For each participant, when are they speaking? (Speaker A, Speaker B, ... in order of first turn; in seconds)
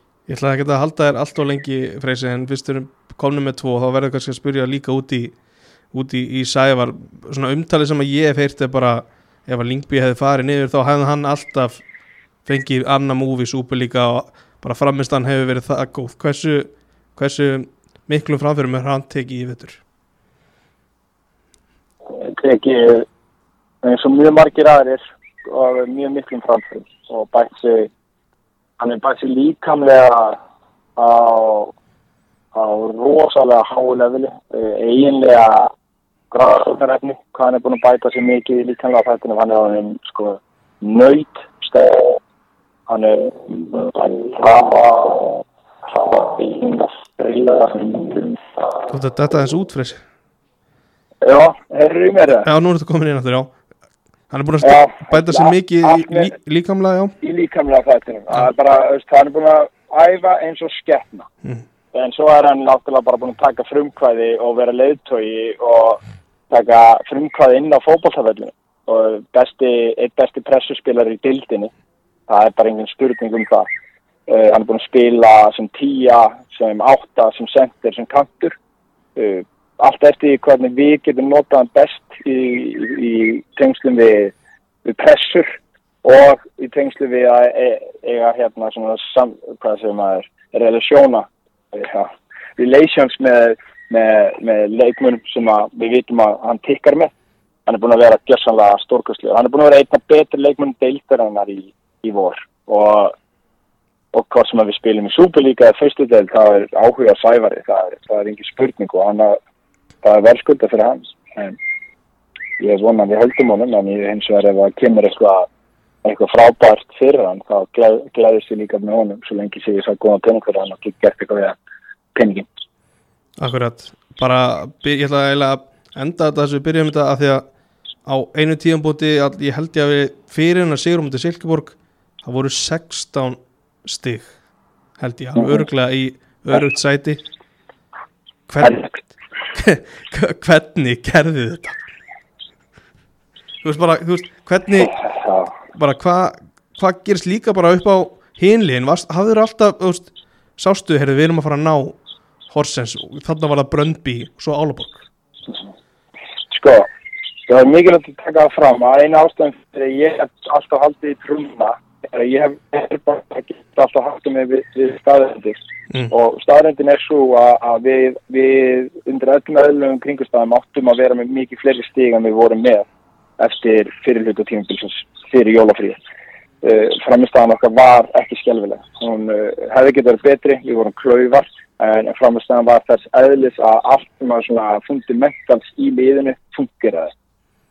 Speaker A: 0.3-5.4, 5.9-11.8, 12.4-19.8, 48.9-50.0, 52.4-53.6, 54.3-57.1, 123.4-127.5, 128.1-134.3, 135.0-137.2, 138.5-138.9, 139.5-141.8, 143.6-145.0, 145.7-152.0, 152.5-155.1
Speaker B: 22.1-23.1, 23.8-27.9, 28.8-30.4, 31.0-31.7, 32.5-35.7, 36.3-42.2, 42.9-48.4, 51.2-52.5, 54.6-56.3, 57.2-61.3, 61.9-71.7, 72.3-73.7, 74.3-78.6, 79.1-84.3, 84.8-97.1, 97.7-103.1, 104.1-109.4, 110.0-111.6, 112.6-115.5, 116.0-121.6, 122.1-122.5, 135.4-135.6, 138.6-138.9, 156.5-156.9, 157.5-165.6, 166.1-172.9, 173.4-176.0, 176.6-187.1